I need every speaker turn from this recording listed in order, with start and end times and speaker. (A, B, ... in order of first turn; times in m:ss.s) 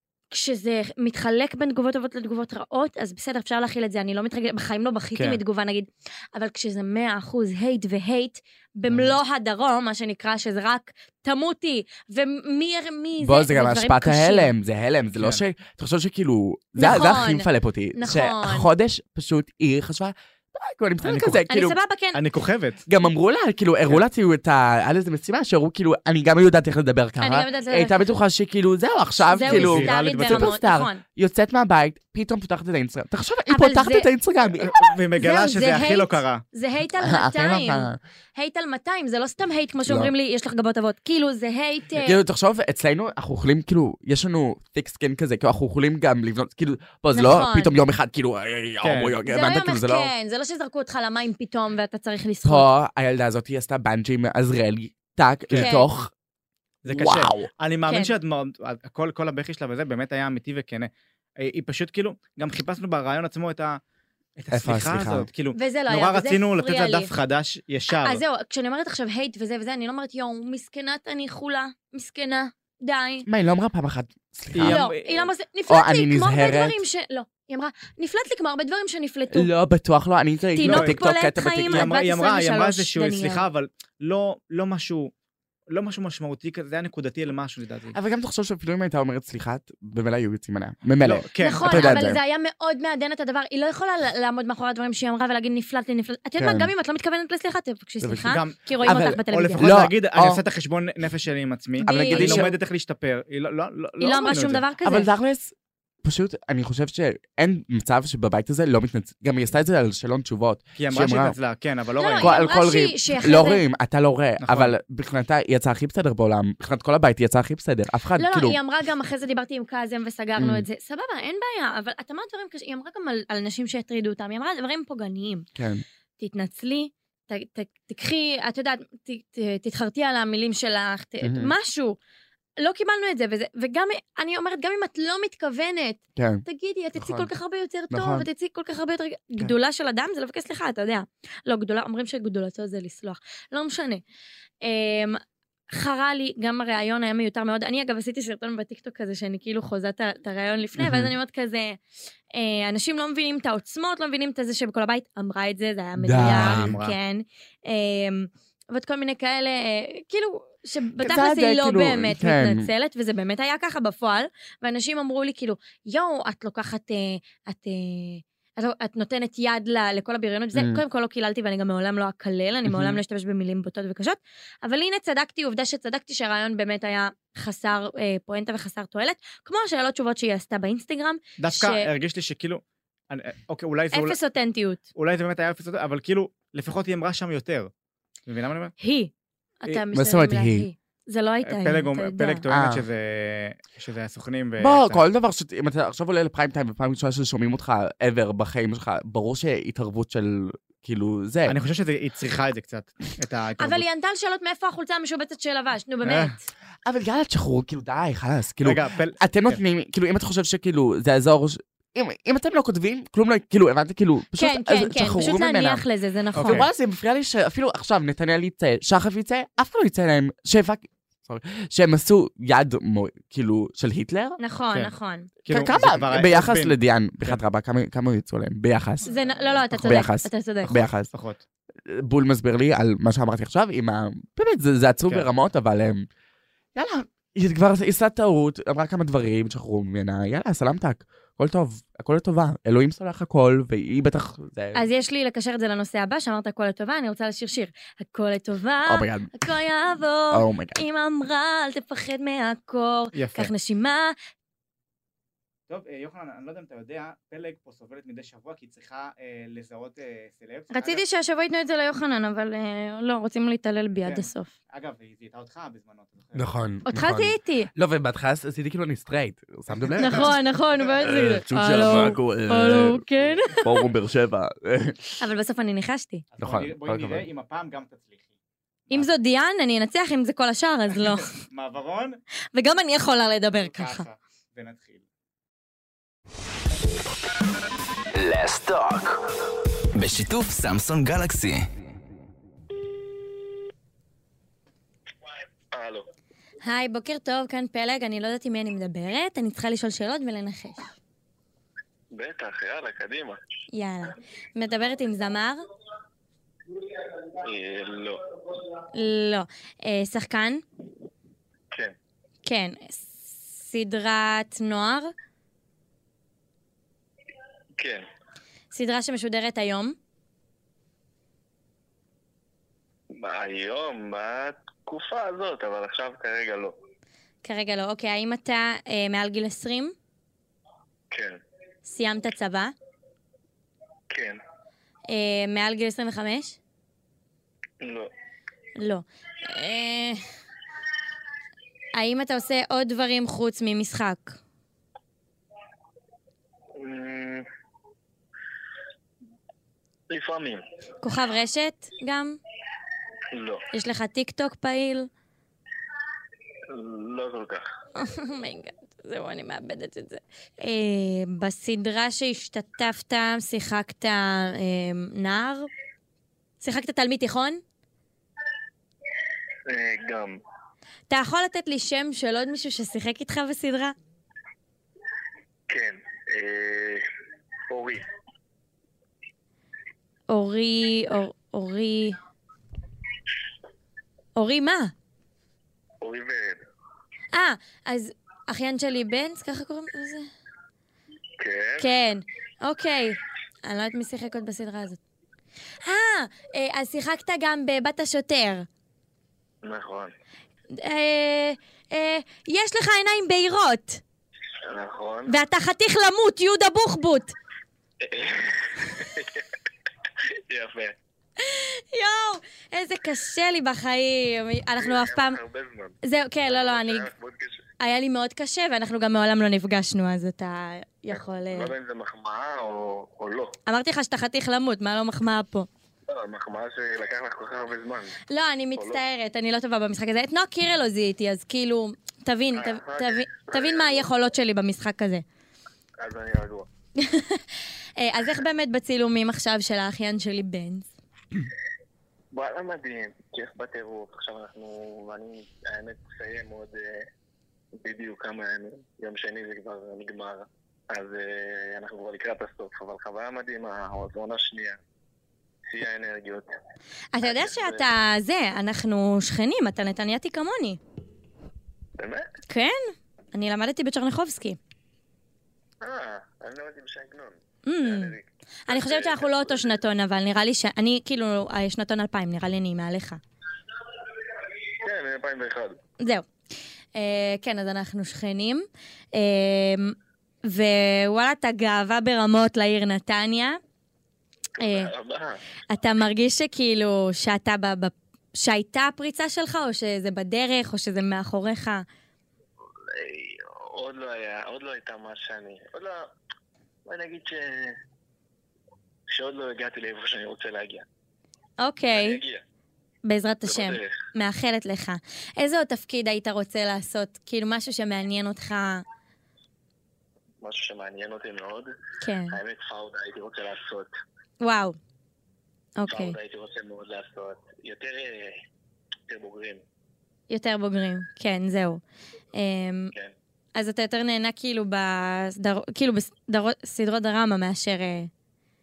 0:00.3-0:14.5 A
0:05.1-0:05.4 B
0:13.2-0:21.8 C
0:16.8-0:18.7 A
0:21.0-0:21.4 B
0:21.5-0:22.2 A
0:22.1-0:22.8 B
0:22.9-0:34.9 C
0:27.2-0:28.0 A
0:29.3-0:31.0 A
0:29.4-0:30.5 B
0:33.5-0:34.1 A
0:34.6-0:36.4 B
0:35.2-0:42.2 A
0:37.0-0:38.0 C
0:39.8-0:40.1 C
0:42.0-0:50.1 C
0:47.1-0:47.8 A
0:48.8-0:49.2 B
0:49.3-0:52.7 A
0:52.4-0:56.1 C
0:55.5-0:55.7 B
0:55.6-0:55.9 A
0:56.8-1:03.8 B
0:56.9-0:57.5 C
0:57.9-0:58.1 A
1:04.4-1:08.2 B
1:04.5-1:05.3 C
1:05.5-1:07.1 A
1:07.9-1:13.3 A
1:13.2-1:14.8 C
1:14.5-1:15.3 B
1:14.6-1:19.5 A
1:15.7-1:16.8 C
1:19.3-1:21.9 C
1:20.5-1:23.5 A
1:20.6-1:21.0 B
1:21.7-1:25.1 B
1:25.7-1:28.0 B
1:27.9-1:32.2 C
1:31.0-1:32.1 B
1:31.4-1:39.6 A
1:36.4-1:36.7 C
1:38.0-1:38.3 C
1:38.2-1:44.6 B
1:38.8-1:40.4 C
1:41.8-1:42.5 A
1:41.8-1:42.5 C
1:44.0-1:45.1 A
1:44.8-1:51.4 C
1:50.8-1:52.4 B
1:52.0-1:53.6 A
1:52.2-1:58.6 C
1:54.4-1:54.7 B
1:58.2-2:05.5 A
2:00.4-2:00.6 C
2:05.6-2:05.8 C
2:06.2-2:12.0 A
2:11.2-2:11.5 C
2:12.6-2:24.0 A
2:16.2-2:16.4 C
2:17.0-2:17.3 C
2:17.9-2:18.3 C
2:24.6-2:31.8 A
2:30.8-2:31.1 C
2:32.3-3:01.9 A
2:36.0-2:36.7 C
2:36.2-2:37.0 B
2:41.0-2:42.7 C
2:50.5-2:50.8 C
3:01.4-3:04.2 B
3:03.9-3:04.8 A
3:04.9-3:07.7 B
3:08.3-3:08.7 B
3:08.8-3:12.4 A
3:09.9-3:10.7 C
3:11.4-3:15.0 B
3:12.5-3:12.8 C
3:14.6-3:21.6 C
3:21.5-3:23.8 B
3:23.6-3:26.5 A
3:26.0-3:26.3 B
3:26.8-3:35.8 C
3:28.6-3:29.6 B
3:34.4-3:36.6 A
3:36.4-3:36.7 B
3:36.4-3:44.4 C
3:44.4-3:45.3 A
3:45.4-3:47.4 B
3:45.5-3:49.1 C
3:49.0-3:50.0 B
3:49.0-3:50.7 A
3:49.7-3:51.1 C
3:50.6-3:51.4 B
3:51.8-3:56.0 C
3:56.7-4:04.8 C
4:04.7-4:14.1 A
4:08.9-4:09.5 C
4:10.3-4:10.8 C
4:13.1-4:13.5 B
4:15.7-4:21.0 B
4:20.7-4:24.5 A
4:24.0-4:26.5 B
4:26.3-4:30.3 C
4:26.8-4:27.7 A
4:29.7-4:30.3 B
4:30.0-4:33.8 A
4:31.0-4:33.0 C
4:33.6-4:35.1 C
4:35.2-4:36.2 A
4:36.3-4:38.3 B
4:36.4-4:37.3 C
4:38.9-4:41.3 A
4:41.0-4:42.2 B
4:42.5-4:44.0 A
4:43.6-4:45.0 B
4:48.1-4:51.7 D
4:55.7-4:56.0 E
4:56.6-5:01.0 A
5:02.1-5:03.4 E
5:03.7-5:05.6 A
5:07.4-5:08.2 E
5:08.9-5:10.6 A
5:12.4-5:15.1 A
5:17.8-5:18.0 E
5:18.7-5:20.0 A
5:23.2-5:26.7 E
5:27.4-5:29.9 A
5:31.1-5:31.4 E
5:31.8-5:32.7 A
5:34.1-5:34.4 E
5:35.1-5:36.6 A
5:37.8-5:38.1 E
5:38.8-5:40.2 A
5:41.9-5:44.4 A
5:46.8-5:47.4 E
5:50.1-5:50.6 E
5:51.0-5:52.4 A
5:53.3-5:53.6 E
5:53.7-5:55.1 A
5:56.7-5:57.6 E
5:58.0-6:05.7 A
6:06.6-6:07.6 A
6:09.7-6:10.4 E
6:11.1-6:13.9 A
6:15.7-6:17.0 E
6:17.7-6:18.0 E
6:20.3-6:22.2 A
6:24.4-6:24.9 A
6:26.0-6:26.6 E
6:27.3-6:30.3 A
6:31.4-6:31.9 E
6:31.8-6:35.0 A
6:35.8-6:38.7 A
6:39.6-6:40.1 E
6:40.7-6:44.0 A
6:44.6-6:45.4 E
6:45.3-6:47.3 A
6:48.0-6:49.5 E
6:50.2-6:50.9 E
6:51.4-6:55.4 A
6:54.8-6:56.0 E
6:56.0-6:57.1 A
6:56.5-6:57.6 E
6:57.8-7:01.7 A
7:01.1-7:03.6 E
7:03.7-7:05.7 A
7:06.1-7:08.2 E
7:08.3-7:15.2 A
7:12.6-7:14.1 E
7:16.0-7:16.7 E
7:17.0-7:17.4 A
7:18.0-7:20.9 A
7:22.3-7:27.0 E
7:27.8-7:34.8 E
7:35.7-7:36.5 E
7:37.1-7:40.8 A
7:37.2-7:37.9 E
7:42.0-7:42.3 E
7:42.5-7:44.6 A
7:45.8-7:49.8 E
7:47.6-7:53.2 A
7:54.8-7:55.8 E
7:56.0-7:56.3 A
7:56.9-8:03.6 A
8:04.6-8:04.9 A
8:04.6-8:05.4 E
8:05.7-8:11.8 A
8:12.9-8:16.0 E
8:16.8-8:17.8 E
8:19.1-8:20.8 E
8:21.6-8:22.2 A
8:21.9-8:22.4 E
8:23.1-8:28.8 A
8:23.4-8:23.9 E
8:30.4-8:31.7 E
8:32.0-8:32.4 A
8:32.3-8:33.9 E
8:34.4-8:34.8 A
8:35.8-8:36.2 A
8:35.9-8:38.4 E
8:39.1-8:39.6 E
8:40.3-8:41.8 A
8:42.3-8:42.9 A
8:43.5-8:48.1 A